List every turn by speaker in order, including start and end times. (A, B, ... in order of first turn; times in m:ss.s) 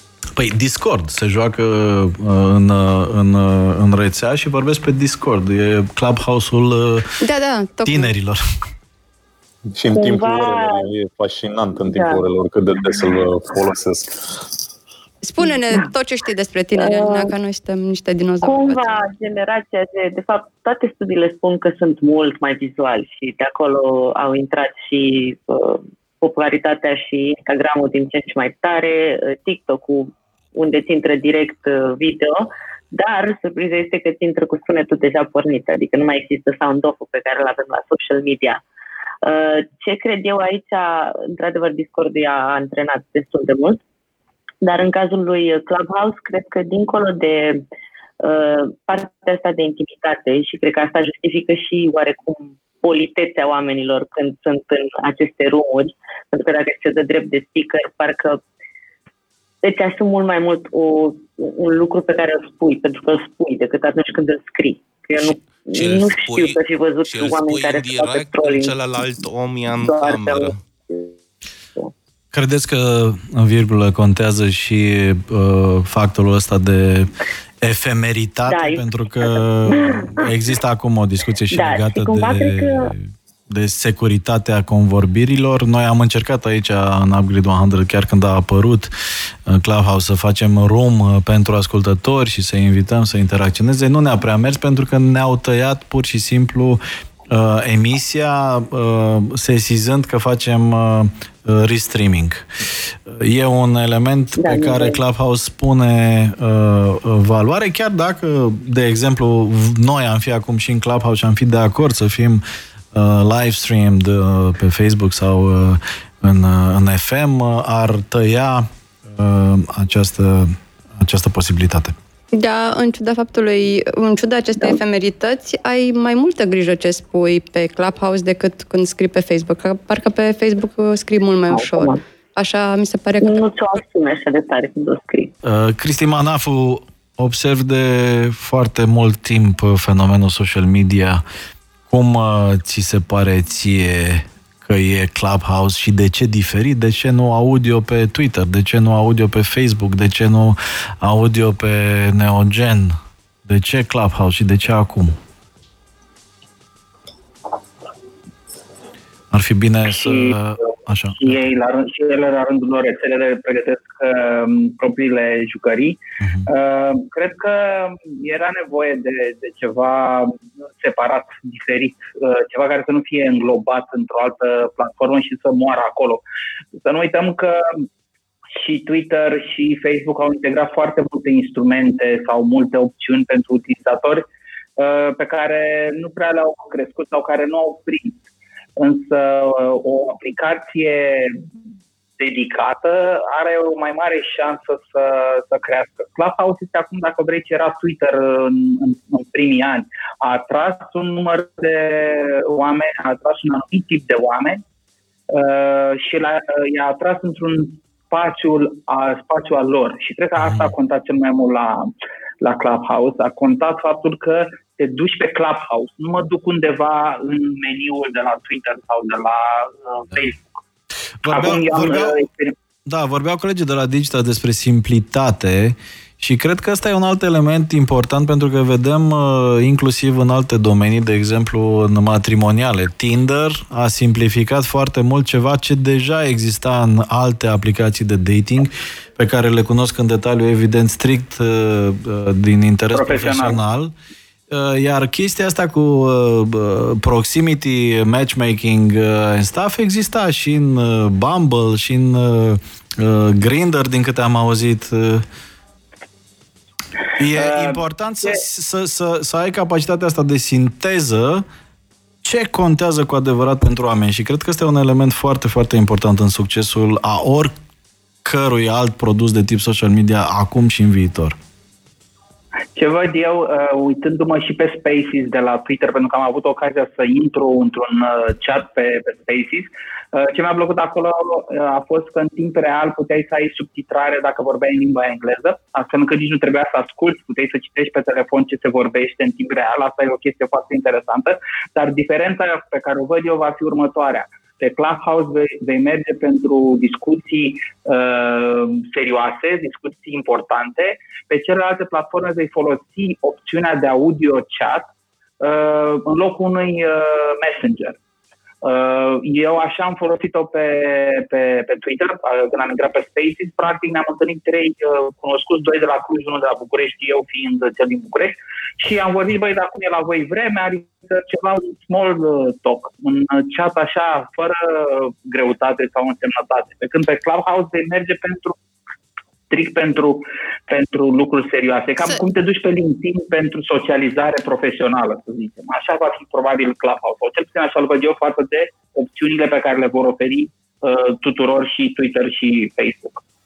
0:00.4-0:07.1 A
0:07.2-0:08.1 B
0:07.9-0:08.4 A
0:09.7-0:14.4 C
0:09.9-0:10.9 D
0:11.8-0:12.2 D
0:15.2-0:18.9 B
0:15.4-0:15.9 D
0:16.8-0:17.3 D
0:18.4-0:38.6 D
0:39.2-0:43.8 D
0:44.6-0:47.6 D
0:48.2-0:58.4 D
0:59.6-1:08.7 D
1:05.2-1:10.6 E
1:09.7-1:11.1 D
1:12.3-1:17.1 A
1:17.6-1:28.9 A
1:18.5-1:20.3 D
1:21.5-1:22.9 D
1:29.5-2:01.9 A
1:44.4-1:45.0 D
2:02.3-2:13.4 B
2:11.5-2:12.0 D
2:13.2-2:15.3 D
2:15.4-2:21.2 A
2:21.9-2:35.2 A
2:39.3-2:41.4 A
2:40.0-2:40.4 F
2:41.2-2:56.2 F
2:46.2-2:46.5 A
2:56.8-2:57.8 F
2:58.5-3:04.2 F
3:04.8-3:08.2 F
3:08.8-3:11.4 F
3:12.2-3:24.6 F
3:25.3-3:40.5 F
3:30.4-3:30.7 A
3:41.2-3:42.1 A
3:41.3-3:42.6 F
3:42.9-4:03.9 A
4:02.9-4:03.6 F
4:04.5-4:15.2 A
4:17.2-4:21.4 A
4:17.4-4:18.4 F
4:22.2-4:27.5 A
4:28.2-4:31.4 A
4:32.8-5:04.9 F
5:05.4-5:08.0 F
5:08.6-5:28.6 F
5:29.5-5:43.2 F